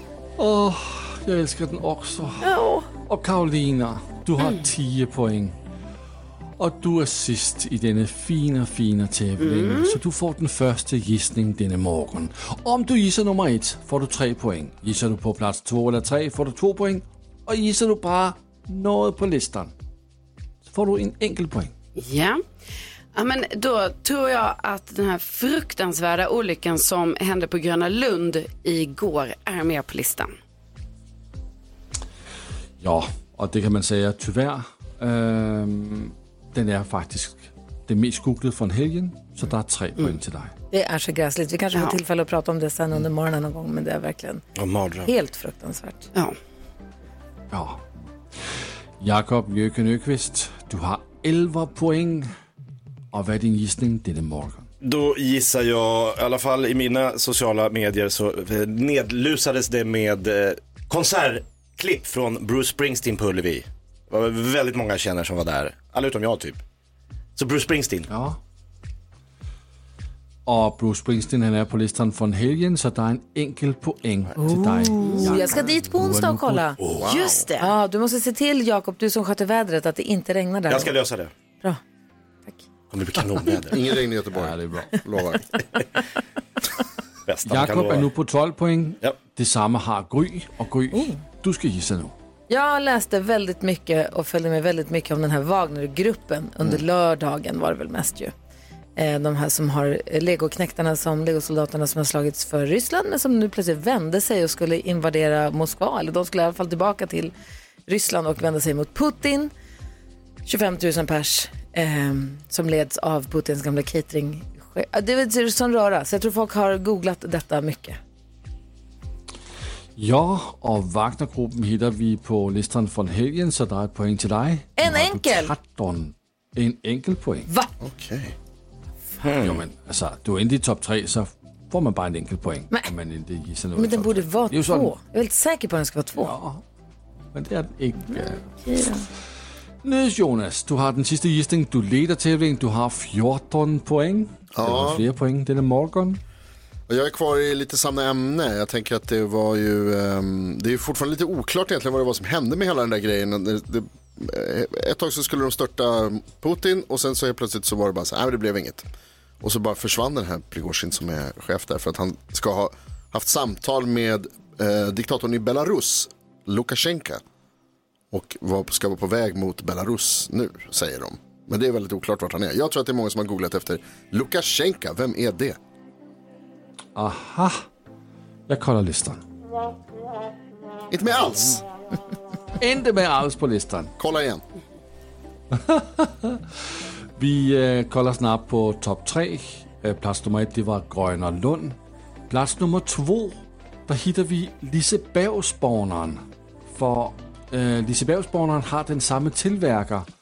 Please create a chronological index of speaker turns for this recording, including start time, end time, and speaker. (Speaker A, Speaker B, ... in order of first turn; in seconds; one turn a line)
Speaker A: 0.4-5.5
Speaker B: 2.4-2.9
Speaker A: 6.6-19.7
Speaker C: 9.4-10.0
Speaker A: 20.7-21.7
Speaker C: 22.0-22.4
Speaker C: 23.1-30.3
Speaker A: 32.8-40.5
Speaker B: 40.7-44.4
Speaker D: 44.5-45.1
Speaker B: 45.0-46.1
Speaker A: 47.5-47.8
Speaker A: 49.0-52.3
Speaker A: 53.1-54.7
Speaker D: 54.8-66.6
Speaker D: 67.3-68.1
Speaker A: 68.1-68.4
Speaker A: 70.5-77.1
Speaker B: 74.3-76.8
Speaker E: 77.0-77.5
Speaker C: 77.0-77.7
Speaker B: 77.6-81.0
Speaker D: 80.7-81.3
Speaker D: 82.9-83.9
Speaker E: 83.7-85.5
Speaker A: 84.3-85.0
Speaker D: 87.2-88.1
Speaker A: 87.5-92.1
Speaker B: 92.5-98.3
Speaker B: 99.0-107.3
Speaker B: 107.9-109.5
Speaker B: 110.4-118.0
Speaker A: 120.0-127.5
Speaker B: 124.8-125.5
Speaker E: 127.8-128.3
Speaker D: 129.2-129.6
Speaker A: 129.4-134.9
Speaker B: 133.8-136.3
Speaker A: 136.2-136.6
Speaker A: 137.3-138.4
Speaker B: 138.7-139.0
Speaker A: 139.8-146.2
Speaker E: 144.5-145.0
Speaker E: 146.9-158.8
Speaker E: 159.4-167.2
Speaker E: 168.1-175.6
Speaker A: 176.9-177.6
Speaker A: 178.5-179.2
Speaker E: 180.9-181.6
Speaker A: 182.6-183.9
Speaker E: 184.0-184.4
Speaker A: 185.5-186.4
Speaker A: 187.2-191.8
Speaker A: 192.3-196.2
Speaker A: 196.7-200.1